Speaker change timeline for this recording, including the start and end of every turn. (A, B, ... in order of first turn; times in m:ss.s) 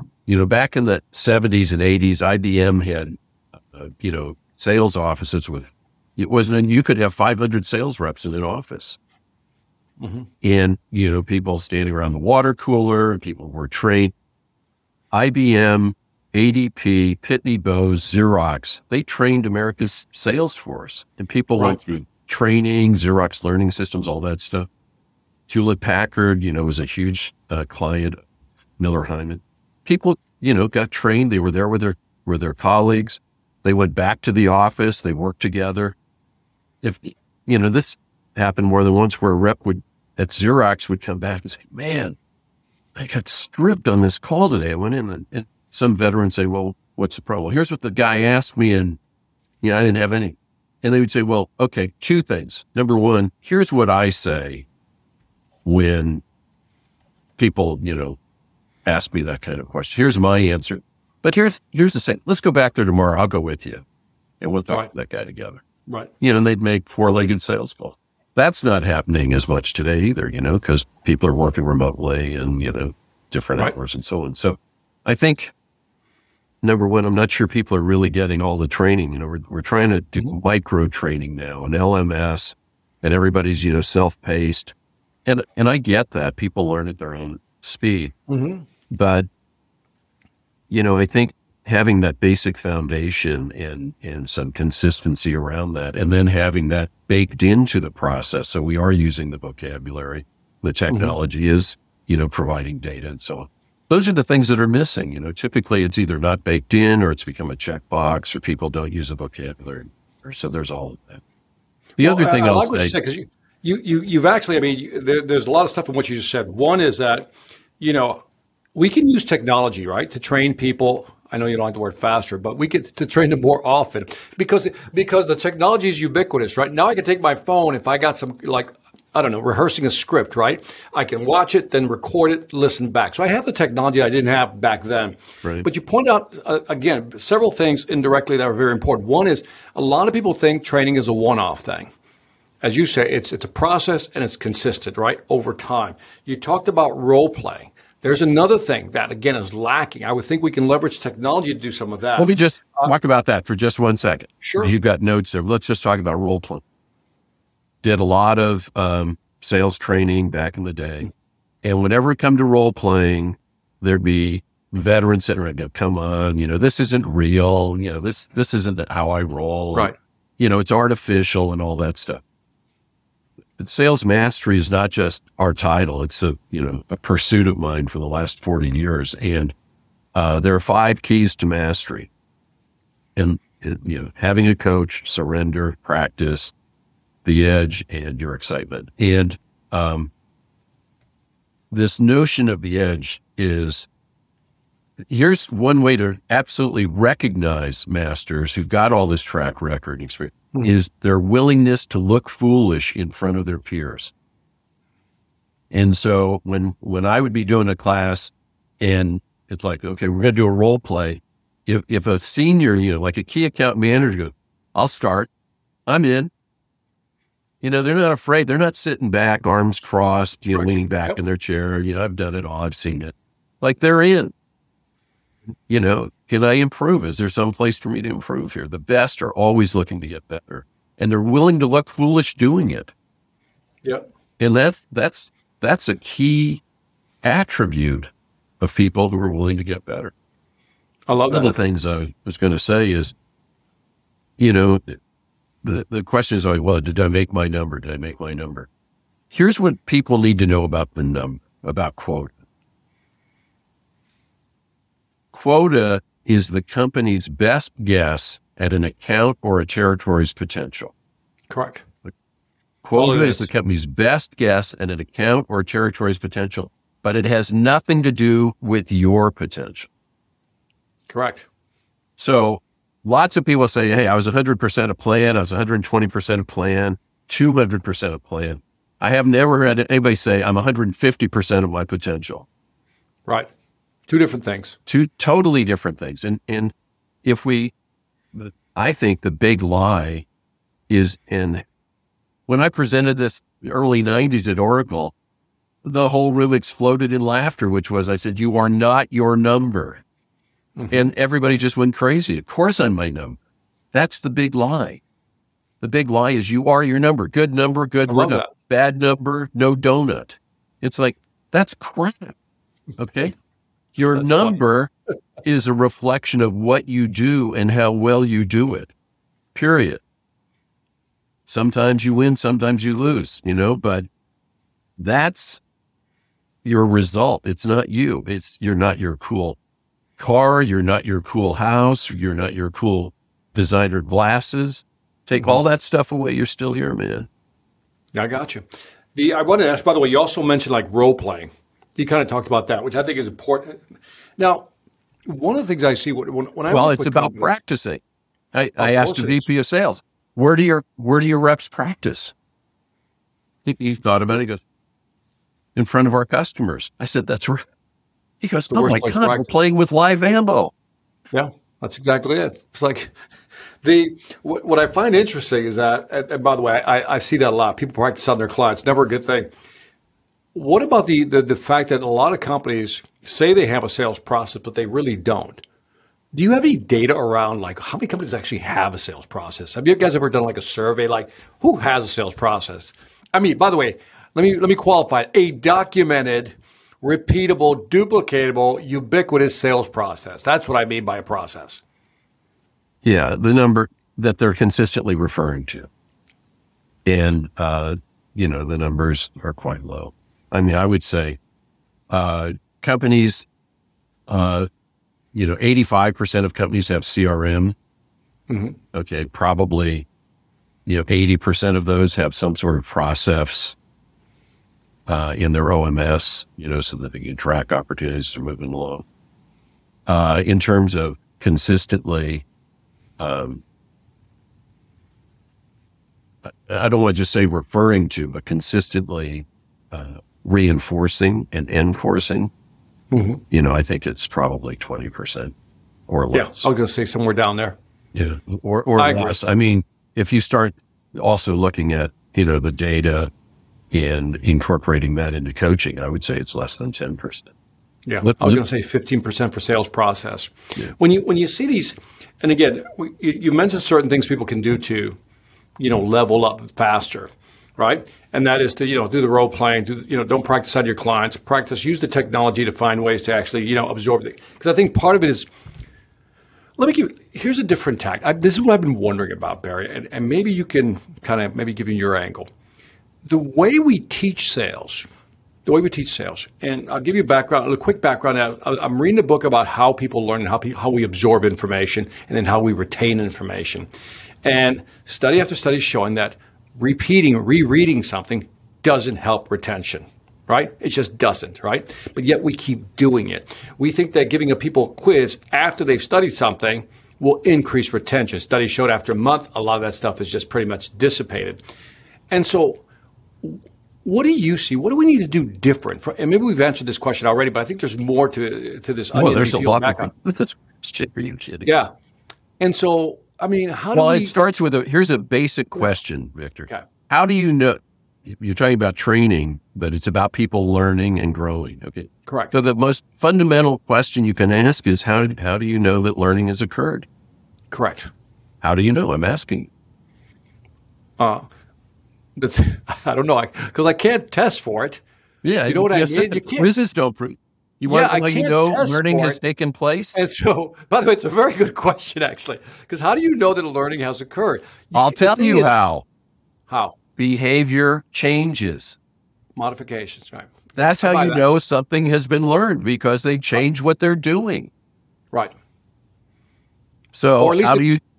0:00.2-0:09.0 A
0:10.0-0:10.3 B
0:10.4-0:14.1 A
0:15.1-0:24.7 A
0:25.5-0:28.2 A
0:28.8-0:36.0 A
0:36.8-0:42.2 A
0:42.9-0:49.0 A
0:49.6-0:54.6 A
0:55.6-0:56.2 A
0:57.4-0:58.2 A
0:58.8-1:03.8 A
1:04.4-1:05.6 A
1:06.2-1:15.5 A
1:16.6-1:24.7 A
1:25.2-1:28.1 A
1:28.3-1:28.6 B
1:28.9-1:29.3 A
1:30.7-1:51.2 A
1:52.0-1:52.9 A
1:52.0-1:58.2 B
1:58.7-2:21.9 B
2:22.6-2:32.9 B
2:32.2-2:36.6 A
2:34.4-2:34.7 B
2:37.8-2:41.1 A
2:41.6-2:52.2 A
2:53.6-2:59.5 A
3:00.1-3:02.1 A
3:03.2-3:06.5 A
3:07.2-3:10.1 A
3:11.7-3:13.9 A
3:15.1-3:24.1 A
3:25.7-3:35.3 A
3:35.9-3:36.3 A
3:37.6-3:44.3 A
3:40.5-3:41.2 B
3:45.7-3:52.9 A
3:54.4-3:56.6 A
3:57.2-4:00.1 A
4:01.1-4:01.6 B
4:01.3-4:03.1 A
4:04.4-4:05.0 A
4:05.6-4:08.7 A
4:09.3-4:12.3 A
4:15.3-4:20.9 A
4:21.5-4:21.8 B
4:22.8-4:29.9 A
4:22.9-4:23.5 B
4:31.1-4:31.5 B
4:32.2-4:42.5 A
4:44.1-4:44.8 B
4:44.8-4:46.7 A
4:47.2-4:47.7 A
4:48.3-4:50.2 A
4:50.9-4:51.6 A
4:52.5-4:55.1 A
4:55.8-5:00.0 A
5:00.8-5:01.0 B
5:00.9-5:03.4 A
5:03.9-5:05.0 A
5:05.8-5:12.3 A
5:08.1-5:08.5 B
5:13.0-5:13.3 A
5:13.9-5:14.9 A
5:14.2-5:14.6 B
5:15.4-5:18.9 A
5:19.5-5:20.0 A
5:21.5-5:24.1 A
5:25.0-5:25.6 A
5:26.6-5:29.6 A
5:30.2-5:37.3 A
5:38.1-5:43.8 B
5:44.4-5:44.7 B
5:45.2-5:47.5 B
5:46.7-5:48.0 A
5:48.5-5:52.3 A
5:48.8-5:49.4 B
5:53.6-5:54.6 A
5:55.7-5:57.6 A
5:58.4-6:00.7 A
5:58.7-5:59.5 B
6:01.3-6:03.1 B
6:03.8-6:09.5 B
6:10.5-6:15.6 B
6:16.3-6:31.8 B
6:33.0-6:35.9 A
6:37.0-6:41.4 A
6:42.1-6:43.5 A
6:44.3-6:44.7 A
6:45.3-6:47.7 A
6:48.5-6:48.8 B
6:48.9-6:50.1 A
6:50.8-6:53.8 A
6:55.1-6:59.0 A
7:00.0-7:02.4 A
7:03.2-7:03.6 A
7:06.4-7:12.5 A
7:13.1-7:13.4 B
7:13.5-7:15.5 A
7:16.1-7:16.7 A
7:16.3-7:17.8 B
7:18.1-7:23.3 A
7:19.0-7:19.4 B
7:23.9-7:27.5 A
7:28.0-7:35.2 B
7:28.2-7:28.6 A
7:35.8-7:45.5 B
7:46.8-7:52.5 B
7:53.2-7:55.1 B
7:55.6-8:03.9 B
8:04.4-8:21.6 B
8:22.3-8:22.8 B
8:23.4-8:30.1 B
8:29.1-8:31.7 A
8:31.6-8:31.9 B
8:32.6-8:34.3 B
8:33.9-8:47.1 A
8:42.3-8:42.5 B
8:47.7-8:48.1 B
8:48.6-8:49.7 A
8:51.2-8:51.5 B
8:52.4-8:55.0 B
8:55.4-9:00.2 A
8:55.7-8:56.7 B
8:57.8-8:59.4 B
9:00.1-9:05.7 B
9:04.9-9:06.0 A
9:06.7-9:07.0 B
9:07.2-9:09.0 A
9:09.6-9:11.4 B
9:10.8-9:14.7 A
9:17.1-9:18.0 A
9:17.4-9:17.9 B